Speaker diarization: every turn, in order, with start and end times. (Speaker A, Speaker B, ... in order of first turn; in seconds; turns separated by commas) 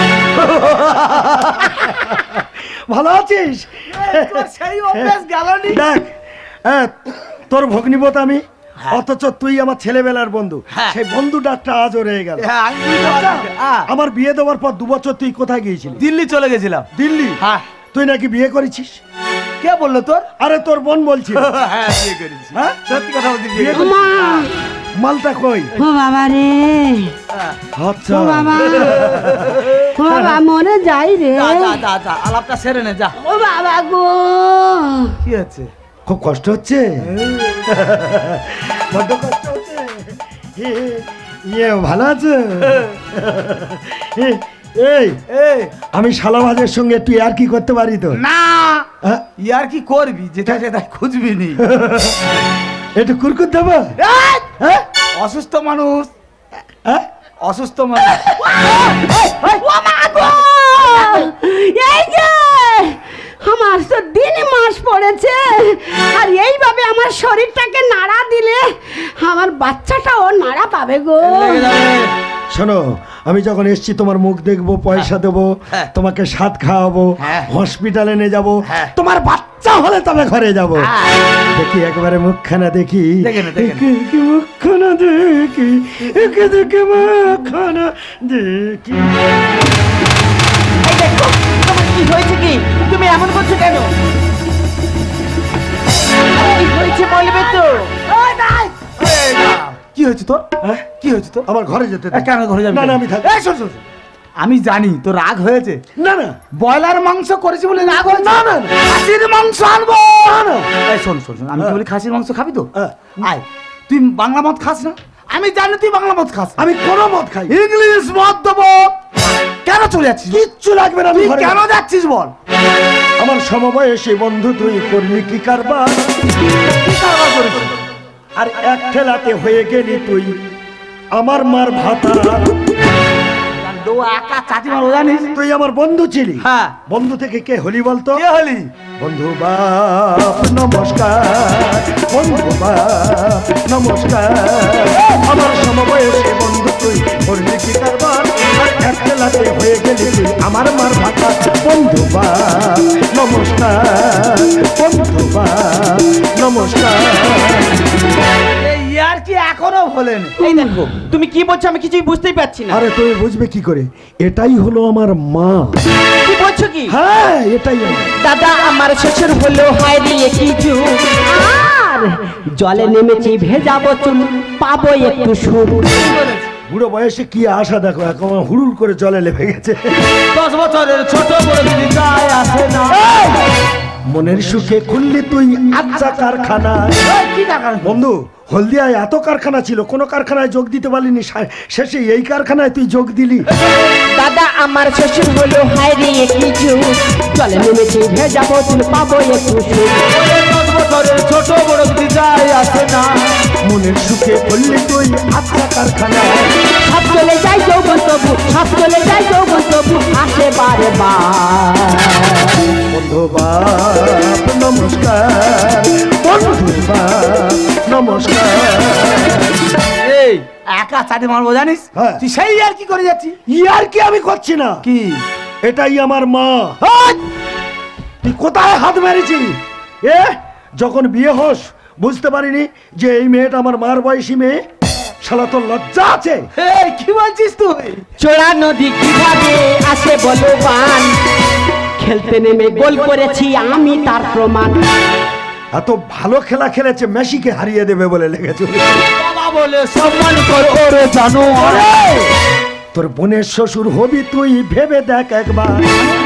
Speaker A: 0.4-1.6, Speaker B: 1.6-5.2, Speaker A: 3.9-5.8, Speaker B: 5.7-6.1, Speaker B: 6.7-12.5, Speaker A: 12.4-13.9, Speaker B: 13.0-16.0, Speaker A: 16.0-16.9, Speaker B: 16.9-17.4, Speaker B: 17.9-19.0, Speaker A: 19.6-20.3, Speaker B: 20.4-21.5, Speaker A: 21.3-24.5, Speaker B: 22.5-22.8, Speaker B: 23.5-24.1, Speaker C: 23.7-24.6, Speaker B: 25.0-25.7, Speaker C: 25.8-27.1, Speaker B: 27.8-29.6, Speaker C: 28.1-29.2, Speaker A: 28.7-30.0, Speaker C: 29.9-31.8, Speaker A: 31.4-33.2, Speaker C: 33.2-35.2, Speaker A: 35.2-35.7, Speaker B: 36.1-37.0, Speaker A: 37.1-37.6, Speaker B: 37.7-45.2, Speaker A: 45.3-45.7, Speaker B: 45.9-48.2, Speaker A: 48.1-48.9, Speaker A: 49.4-51.6, Speaker B: 51.6-52.4, Speaker B: 53.0-54.0, Speaker A: 54.0-54.5, Speaker B: 54.6-54.8, Speaker A: 55.2-56.1, Speaker A: 57.4-59.6, Speaker C: 58.6-71.7, Speaker A: 71.2-72.2, Speaker B: 72.5-80.9, Speaker A: 77.2-77.5, Speaker A: 78.7-78.9, Speaker A: 80.8-81.3, Speaker B: 81.5-89.2, Speaker A: 83.2-83.9, Speaker D: 90.8-93.9, Speaker D: 96.4-97.9, Speaker A: 98.0-100.5, Speaker B: 100.6-100.9, Speaker A: 101.0-101.5, Speaker B: 101.5-103.5, Speaker A: 102.1-103.8, Speaker A: 104.4-105.8, Speaker B: 106.0-106.4, Speaker A: 106.5-112.7, Speaker B: 108.0-108.8, Speaker B: 110.2-110.7, Speaker B: 112.8-113.2, Speaker A: 113.2-116.7, Speaker B: 116.6-117.6, Speaker A: 117.5-119.0, Speaker A: 119.6-120.5, Speaker B: 120.3-121.6, Speaker A: 121.1-122.3, Speaker B: 123.2-126.1, Speaker A: 126.8-127.8, Speaker B: 128.4-130.4, Speaker B: 131.1-132.6, Speaker A: 133.6-135.4, Speaker B: 135.3-138.2, Speaker A: 136.4-136.8, Speaker A: 138.2-138.7, Speaker B: 139.0-157.8, Speaker A: 158.6-160.4, Speaker D: 160.4-162.8, Speaker C: 160.4-160.7, Speaker B: 162.7-165.8, Speaker D: 166.2-166.9, Speaker B: 166.9-168.1, Speaker D: 168.2-171.2, Speaker C: 171.3-176.1, Speaker A: 176.0-176.5, Speaker B: 176.7-180.0, Speaker A: 180.3-183.5, Speaker B: 184.1-187.0, Speaker A: 187.0-188.0, Speaker B: 187.8-193.5, Speaker D: 194.1-197.0, Speaker C: 197.3-200.0, Speaker A: 200.1-203.4, Speaker B: 203.7-206.6, Speaker C: 206.8-212.5, Speaker B: 212.9-219.6, Speaker A: 220.0-223.4, Speaker B: 221.9-222.2, Speaker B: 223.5-224.8, Speaker A: 224.8-225.2, Speaker B: 225.6-226.8, Speaker A: 226.8-227.2, Speaker B: 228.2-234.6, Speaker B: 235.2-236.5, Speaker A: 236.6-238.1, Speaker D: 238.2-241.1, Speaker C: 242.0-244.8, Speaker D: 242.8-243.9, Speaker B: 245.8-249.1, Speaker A: 249.2-252.2, Speaker B: 251.6-252.3, Speaker B: 252.9-255.8